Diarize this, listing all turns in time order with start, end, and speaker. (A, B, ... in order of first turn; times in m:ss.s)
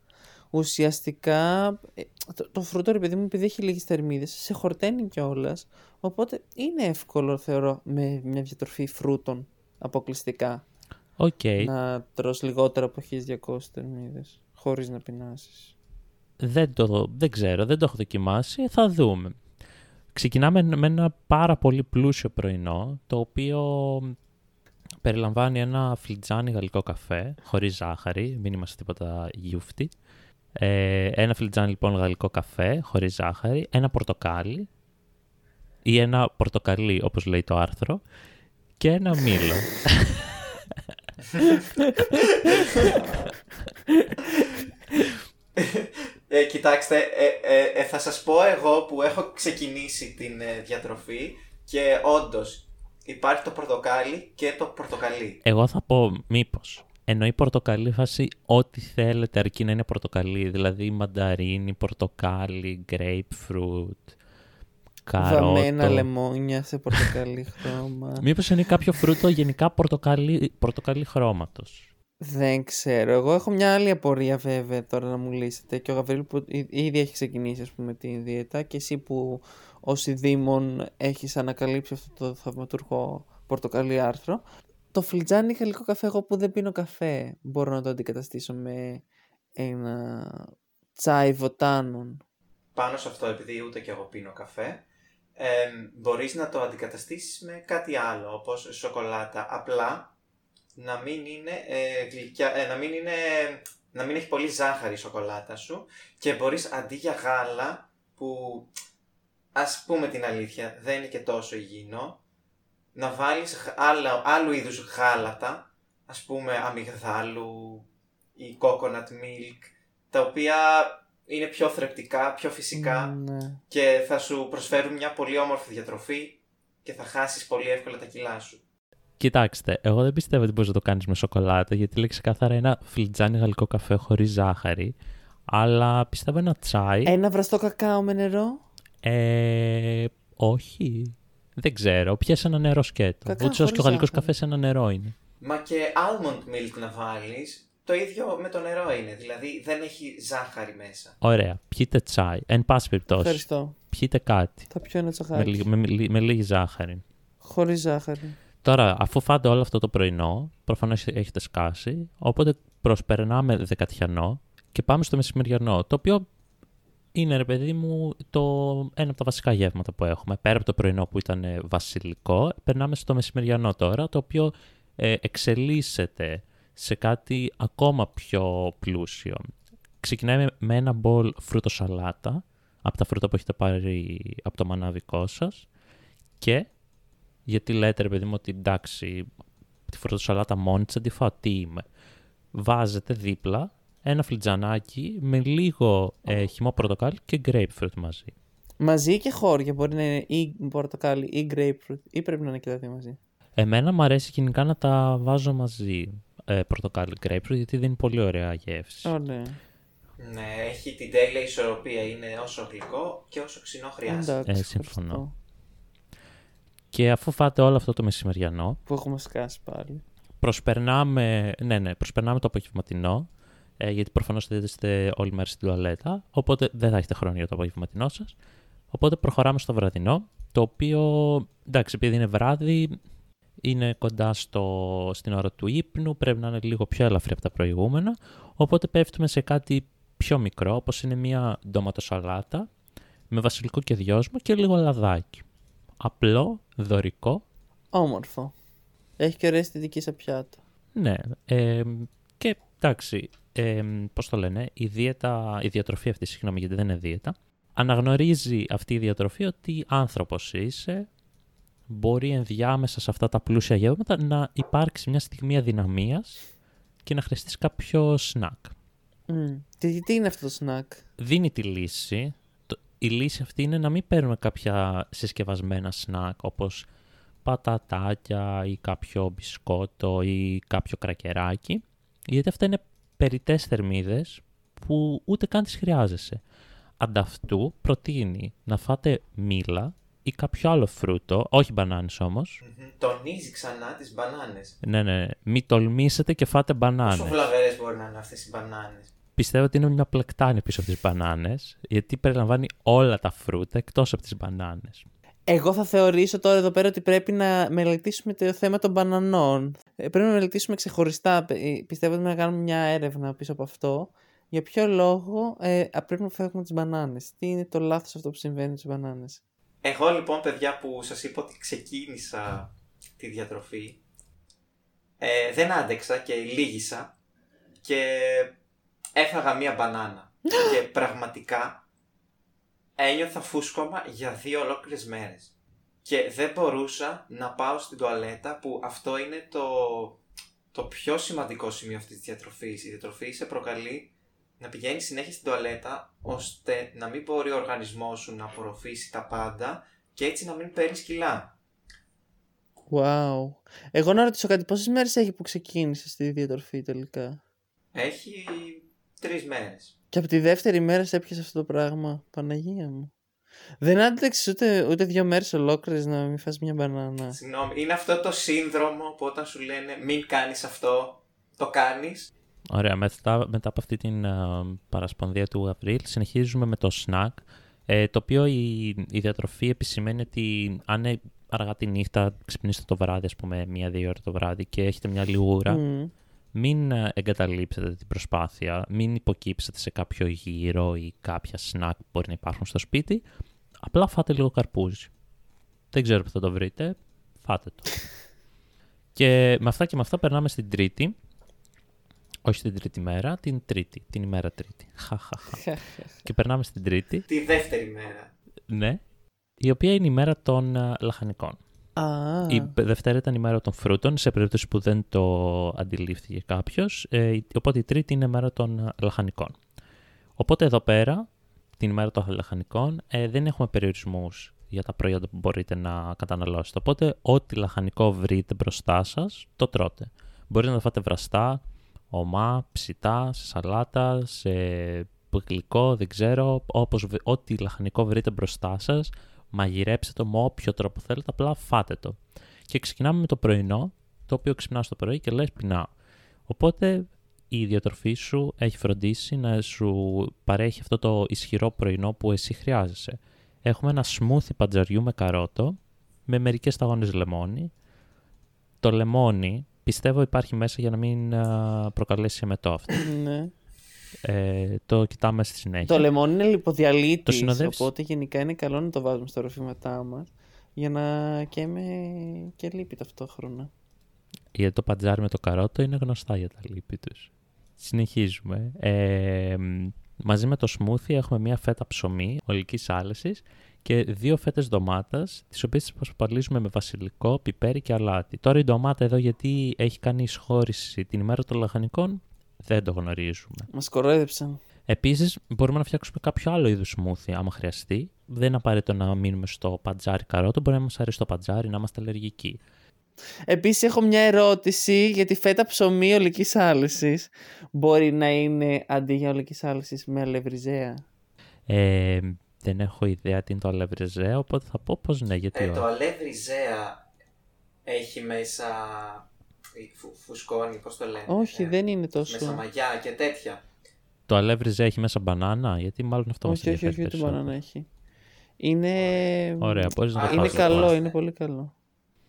0:00.5-0:10.6 A
0:11.2-0:11.7 B
0:11.6-0:15.7 A
0:16.4-0:19.4 B
0:20.1-0:24.2 B
0:25.0-0:29.9 B
0:30.6-0:34.7 B
0:35.8-0:38.0 B
0:38.8-0:40.7 B
0:42.4-0:43.0 C
0:45.6-0:55.4 C
0:55.4-1:04.1 B
1:05.0-1:06.1 B
1:05.2-1:08.2 A
1:08.2-1:11.9 B
1:12.2-1:24.4 A
1:24.9-1:29.0 A
1:29.6-1:32.2 A
1:32.7-1:34.8 C
1:35.4-1:40.1 C
1:40.8-1:48.7 C
1:49.5-1:52.2 C
1:52.9-2:03.1 C
2:02.7-2:03.6 A
2:03.7-2:08.6 C
2:09.2-2:14.9 B
2:15.5-2:17.1 B
2:17.0-2:18.6 A
2:19.0-2:25.1 B
2:23.2-2:24.3 A
2:25.4-2:31.2 C
2:31.2-2:34.7 B
2:33.1-2:33.8 A
2:34.7-2:35.6 A
2:35.3-2:37.0 B
2:37.4-2:38.4 A
2:38.6-2:46.2 B
2:47.1-2:59.5 B
3:00.0-3:05.7 B
3:06.4-3:06.7 B
3:07.4-3:09.3 B
3:09.9-3:11.8 B
3:12.6-3:18.3 B
3:18.8-3:23.2 A
3:23.6-3:29.1 B
3:29.0-3:29.6 A
3:30.2-3:34.4 C
3:34.1-3:35.3 A
3:34.5-3:35.2 B
3:36.9-3:38.8 B
3:38.9-3:40.0 A
3:40.4-3:48.3 B
3:48.9-3:53.0 B
3:53.6-4:02.7 B
4:03.3-4:05.4 B
4:06.0-4:07.4 B
4:07.9-4:08.5 A
4:09.2-4:10.6 A
4:11.0-4:21.1 B
4:21.9-4:26.4 B
4:27.0-4:28.7 B
4:29.3-4:31.0 A
4:31.2-4:36.9 B
4:37.4-4:46.4 B
4:47.0-4:52.6 B
4:52.6-4:54.8 C
4:54.8-4:57.5 B
4:57.0-4:59.1 C
4:59.4-5:05.0 B
5:05.5-5:19.4 A
5:19.8-5:24.0 C
5:25.2-5:27.1 C
5:27.8-5:28.6 C
5:29.1-5:31.8 C
5:33.0-5:35.5 C
5:36.0-5:40.2 C
5:40.7-5:51.5 C
5:52.9-5:57.4 A
5:57.9-5:59.9 C
6:00.1-6:03.1 A
6:03.8-6:07.4 A
6:07.3-6:12.3 C
6:12.7-6:25.8 B
6:25.7-6:26.1 A
6:26.6-6:33.2 B
6:33.8-6:35.1 B
6:35.9-6:38.0 B
6:39.1-6:41.1 B
6:42.4-6:47.2 B
6:45.6-6:46.0 A
6:47.3-6:48.3 C
6:48.7-6:49.0 B
6:49.6-6:51.6 B
6:52.0-6:52.7 A
6:52.5-6:59.6 B
7:00.4-7:01.2 B
7:01.8-7:25.9 B
7:26.5-7:37.7 B
7:38.8-7:42.9 B
7:43.0-7:43.5 A
7:44.2-7:46.1 B
7:45.8-7:53.7 A
7:47.2-7:47.9 B
7:54.6-8:13.7 B
8:13.7-8:14.6 A
8:14.9-8:22.6 B
8:23.5-8:31.0 A
8:31.7-8:35.9 B
8:35.6-8:37.0 C
8:37.9-8:43.6 C
8:41.3-8:42.6 A
8:44.3-8:47.5 B
8:46.4-8:47.9 A
8:48.6-8:51.7 A
8:49.6-8:50.9 B
8:50.1-8:51.2 C